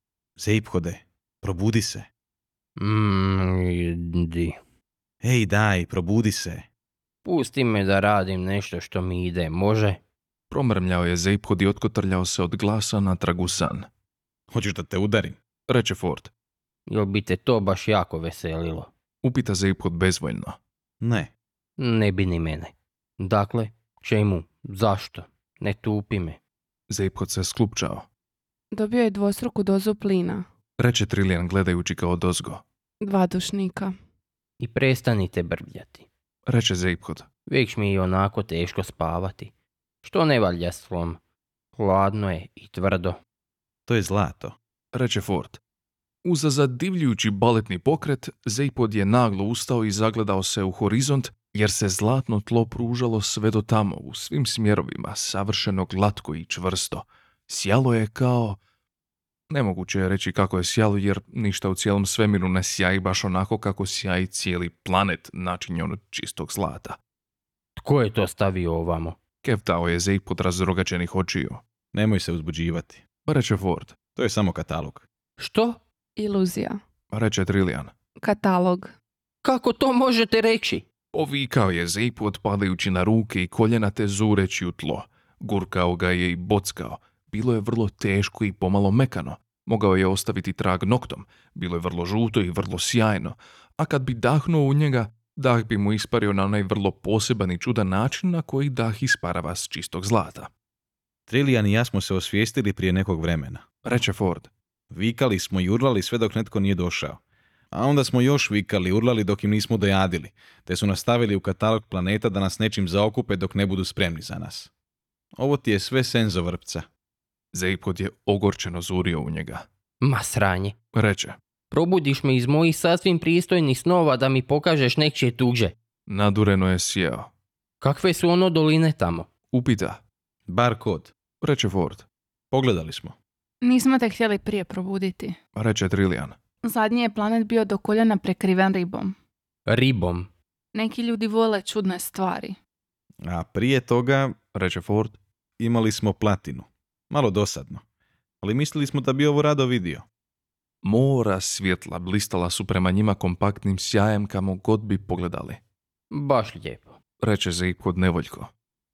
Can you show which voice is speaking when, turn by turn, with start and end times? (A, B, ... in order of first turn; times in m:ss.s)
0:00.4-0:02.1 A
0:02.8-0:04.6 B
0:05.2-0:06.7 A
0:07.3-0:10.0 B
0:10.5-0:13.9 C
0:14.5-0:15.4 A
0:15.7-0:16.3 C
0:16.9-0:18.9 B
0:19.2-0:20.6 C
0:21.0-0:21.3 A
0:21.8-0:26.4 B
0:26.9-0:28.1 C
0:28.7-0:30.4 D
0:30.8-0:32.6 C
0:33.0-0:33.9 D
0:34.6-0:36.1 B
0:36.5-0:37.3 C
0:37.5-0:39.5 B
0:40.0-0:41.2 B
0:41.8-0:43.2 B
0:43.9-0:44.6 A
0:44.9-0:45.6 C
0:46.2-0:58.6 C
0:59.5-1:07.0 C
1:07.8-1:09.2 B
1:09.4-1:11.6 C
1:11.9-1:13.0 A
1:13.3-1:14.0 C
1:14.2-1:15.1 A
1:15.4-1:15.8 B
1:16.2-1:16.8 D
1:17.1-1:17.9 C
1:18.2-1:18.9 D
1:19.4-1:20.8 B
1:21.1-1:40.5 C
1:41.3-1:43.6 A
1:43.8-1:44.5 C
1:44.9-1:47.2 A
1:47.7-1:54.7 A
1:55.4-1:56.9 A
1:57.5-1:59.6 C
2:00.0-2:00.8 B
2:00.9-2:01.4 C
2:01.7-2:05.8 B
2:06.1-2:07.3 C
2:07.8-2:09.3 B
2:09.5-2:10.0 C
2:10.5-2:11.1 A
2:11.4-2:12.1 C
2:12.5-2:13.2 A
2:13.6-2:15.4 D
2:15.6-2:16.4 C
2:16.6-2:19.2 D
2:19.7-2:20.3 B
2:20.7-2:22.6 D
2:23.2-2:24.4 A
2:24.5-2:25.2 C
2:25.6-2:27.8 A
2:28.4-2:30.0 A
2:30.8-2:35.6 C
2:36.1-2:37.0 B
2:37.2-2:38.5 C